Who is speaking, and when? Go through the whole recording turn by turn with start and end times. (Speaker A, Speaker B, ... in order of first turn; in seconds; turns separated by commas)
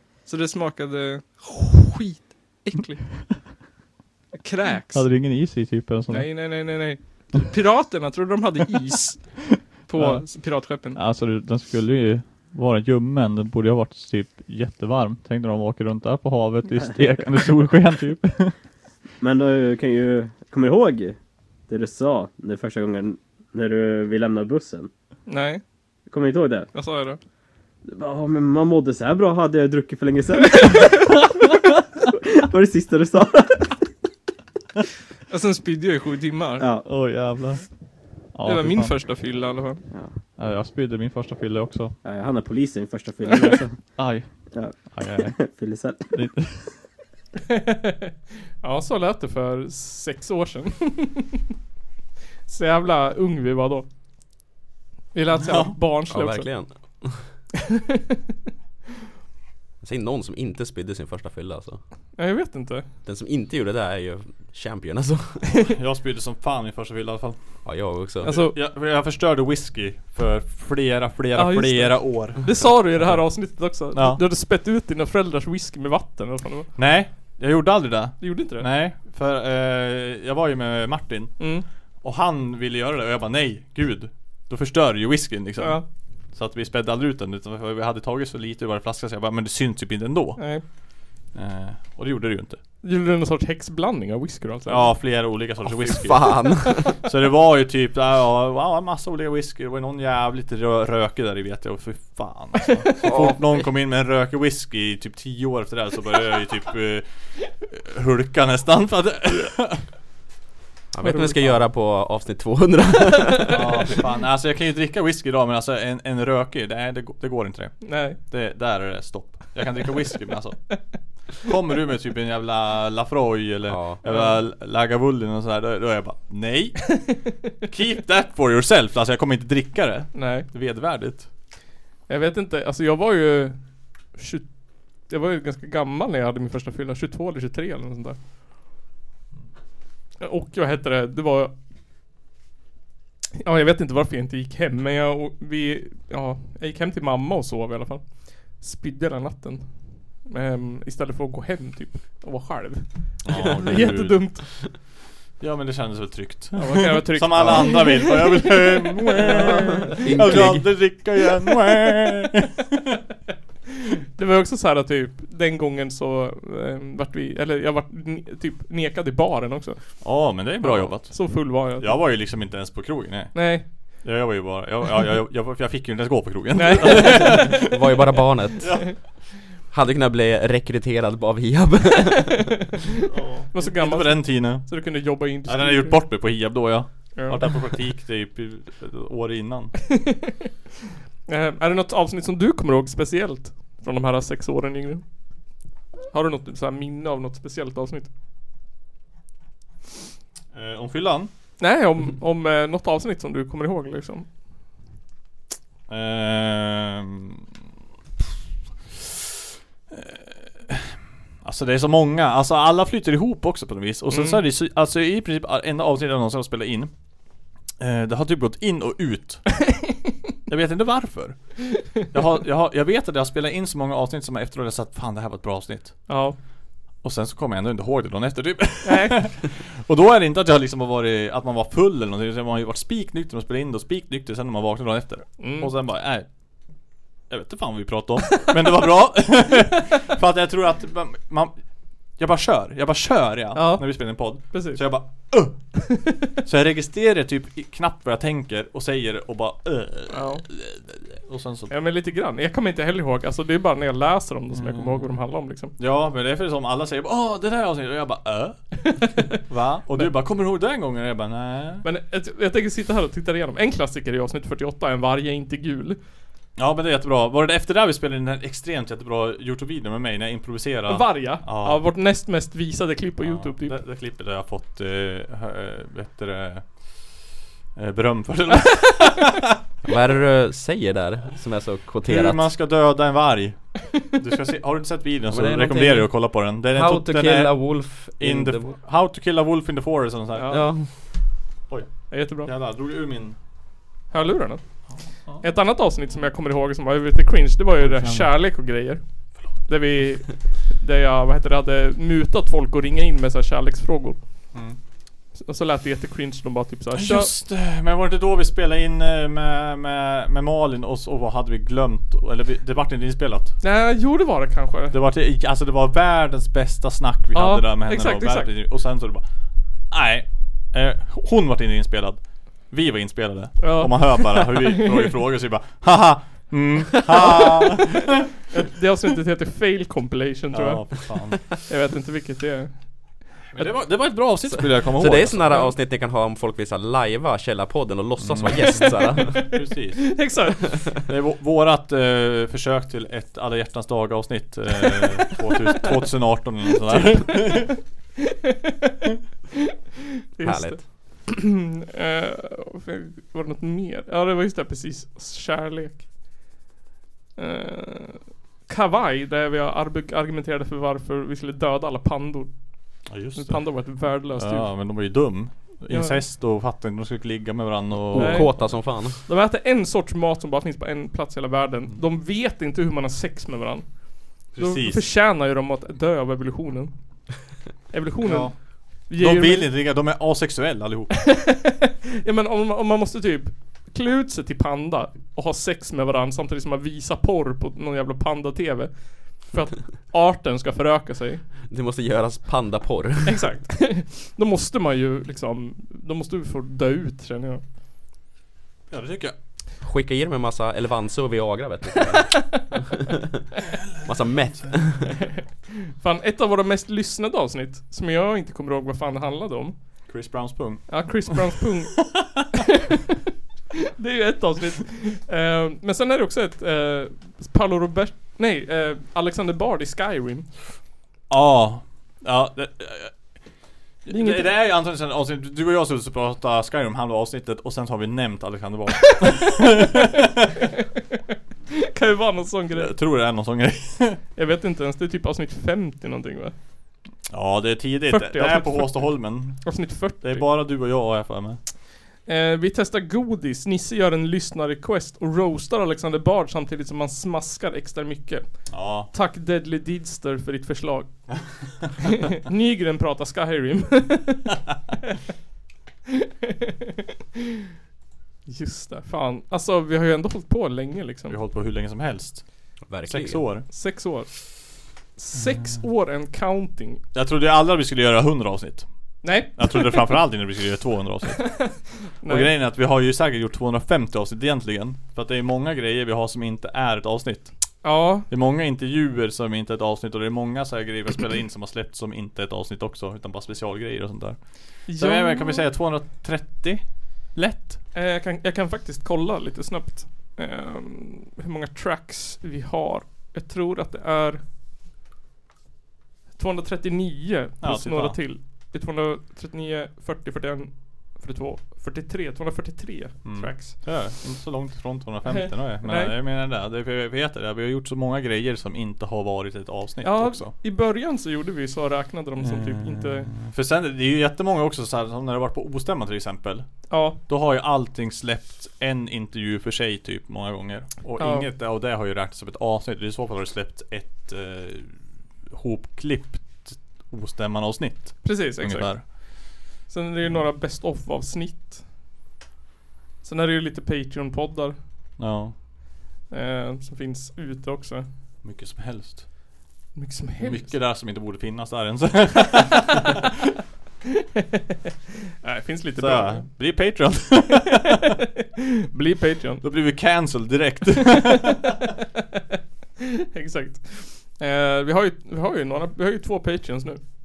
Speaker A: 0.2-3.1, Speaker A: 4.4-5.1, Speaker B: 4.9-6.3, Speaker A: 6.1-11.0, Speaker B: 9.9-10.3, Speaker B: 10.9-18.6, Speaker C: 19.2-21.2, Speaker C: 21.7-24.9, Speaker A: 25.3-25.6, Speaker C: 26.1-26.7, Speaker A: 26.7-27.2, Speaker C: 27.9-33.8, Speaker A: 35.3-36.6, Speaker C: 36.6-36.9, Speaker B: 36.9-37.6, Speaker B: 38.3-39.0, Speaker A: 38.5-39.8, Speaker B: 40.4-42.0, Speaker C: 42.0-43.8, Speaker B: 44.0-44.3, Speaker C: 44.5-46.1, Speaker B: 44.9-45.4, Speaker B: 46.1-46.6, Speaker A: 47.5-51.4, Speaker A: 52.5-53.9, Speaker A: 55.1-56.5, Speaker B: 55.4-55.8, Speaker D: 56.1-57.3, Speaker D: 59.8-61.8, Speaker A: 62.2-62.9, Speaker D: 63.0-65.5, Speaker B: 65.7-67.6, Speaker D: 67.7-68.3, Speaker A: 68.2-68.6, Speaker B: 68.2-74.2, Speaker A: 71.3-76.7, Speaker B: 76.8-90.5, Speaker A: 78.2-78.7, Speaker A: 81.4-81.7, Speaker A: 85.6-85.8, Speaker A: 90.4-90.6, Speaker B: 91.3-92.6, Speaker A: 92.8-95.0, Speaker B: 94.7-109.9, Speaker D: 95.6-97.0, Speaker D: 103.0-103.6, Speaker D: 110.9-113.5, Speaker A: 111.0-111.5, Speaker A: 113.5-113.8, Speaker B: 113.5-131.3, Speaker A: 117.8-118.2, Speaker D: 123.7-124.0, Speaker A: 124.1-124.4, Speaker A: 130.1-130.5, Speaker A: 132.1-138.2, Speaker A: 140.2-141.5, Speaker A: 143.4-154.4, Speaker B: 153.2-154.7, Speaker B: 155.4-163.0, Speaker A: 156.6-160.0, Speaker D: 157.4-157.7, Speaker D: 159.5-160.7, Speaker A: 164.2-170.4, Speaker B: 170.0-177.6, Speaker D: 170.6-170.9, Speaker A: 170.9-172.0, Speaker A: 173.3-173.7, Speaker A: 176.6-177.6, Speaker D: 177.4-178.7, Speaker B: 178.6-178.9, Speaker D: 179.7-182.4, Speaker B: 183.1-189.7, Speaker A: 183.5-186.1, Speaker A: 187.2-187.5, Speaker A: 191.3-195.0, Speaker A: 196.1-198.1, Speaker B: 200.5-201.3, Speaker A: 201.6-204.3, Speaker B: 205.9-207.4, Speaker B: 209.9-216.9, Speaker A: 214.1-214.4, Speaker B: 217.8-219.6, Speaker B: 220.5-226.2, Speaker A: 226.1-226.4, Speaker B: 227.0-236.3, Speaker A: 228.8-229.2, Speaker A: 235.4-235.7, Speaker B: 237.3-241.6, Speaker B: 242.2-245.7, Speaker A: 243.6-244.8, Speaker A: 245.9-246.2, Speaker B: 246.4-251.7, Speaker A: 250.1-250.4, Speaker A: 251.7-255.8, Speaker B: 254.5-255.2, Speaker B: 255.8-261.9, Speaker A: 258.9-259.4, Speaker A: 259.9-260.2, Speaker A: 261.8-266.0, Speaker B: 266.6-271.8, Speaker A: 270.9-273.8, Speaker B: 273.2-277.1, Speaker B: 277.8-279.5, Speaker D: 279.9-282.5, Speaker B: 282.1-290.6, Speaker D: 285.3-288.8, Speaker A: 290.4-290.7, Speaker D: 290.5-290.9, Speaker B: 291.7-293.4, Speaker A: 292.1-292.5, Speaker A: 294.1-294.6, Speaker A: 295.4-304.2, Speaker B: 297.8-298.3, Speaker B: 304.5-304.8, Speaker A: 305.4-307.3, Speaker B: 306.9-313.6, Speaker A: 313.6-315.0, Speaker B: 314.9-319.2, Speaker A: 317.3-318.5, Speaker B: 319.9-328.1, Speaker A: 323.6-325.1, Speaker A: 327.1-330.9, Speaker B: 330.5-331.4, Speaker A: 331.6-332.7, Speaker B: 333.5-335.6, Speaker D: 334.5-339.5, Speaker B: 338.2-340.2, Speaker A: 340.1-340.9, Speaker B: 341.1-347.7, Speaker A: 346.9-347.7, Speaker A: 350.4-356.1, Speaker D: 350.4-351.2, Speaker A: 357.4-362.5, Speaker B: 363.1-368.6, Speaker A: 363.3-364.8, Speaker A: 365.9-366.2, Speaker D: 368.1-369.2, Speaker A: 368.2-376.9, Speaker B: 374.5-375.1, Speaker A: 377.9-379.7, Speaker B: 378.2-381.2, Speaker A: 381.3-391.4, Speaker D: 391.7-393.4, Speaker A: 393.3-397.6, Speaker B: 398.9-399.4, Speaker D: 399.8-403.4, Speaker B: 403.7-404.9, Speaker D: 404.1-405.1, Speaker A: 405.2-409.8, Speaker B: 410.1-412.4, Speaker A: 410.9-412.6, Speaker A: 414.0-420.5, Speaker B: 421.3-423.4, Speaker B: 424.1-430.5, Speaker A: 424.1-424.5, Speaker A: 431.8-433.0, Speaker B: 432.7-434.2, Speaker A: 434.4-436.6, Speaker B: 437.3-441.6, Speaker A: 438.1-440.5, Speaker A: 442.2-451.4, Speaker B: 448.7-449.1, Speaker A: 452.0-454.5, Speaker A: 458.5-461.4, Speaker B: 461.3-462.5, Speaker D: 462.9-463.4, Speaker B: 463.0-463.7, Speaker A: 463.7-467.0, Speaker B: 465.5-465.8, Speaker B: 467.1-477.5, Speaker A: 469.2-470.2, Speaker A: 471.4-472.5, Speaker A: 477.8-478.3, Speaker B: 478.2-487.8, Speaker A: 484.9-485.6, Speaker A: 487.9-494.4, Speaker A: 496.4-503.9, Speaker B: 497.6-498.2, Speaker B: 503.2-510.5, Speaker A: 505.3-506.2, Speaker A: 510.0-513.3, Speaker B: 512.4-529.1, Speaker A: 516.9-517.2, Speaker A: 521.2-521.5, Speaker A: 528.2-531.9, Speaker A: 533.2-534.8, Speaker B: 535.2-535.6, Speaker A: 536.3-538.1, Speaker B: 538.4-539.3, Speaker A: 540.0-540.8, Speaker B: 540.4-543.2, Speaker A: 545.4-546.5, Speaker B: 546.0-548.0, Speaker A: 548.9-549.6, Speaker B: 549.6-551.8, Speaker A: 551.4-551.8, Speaker A: 553.0-557.0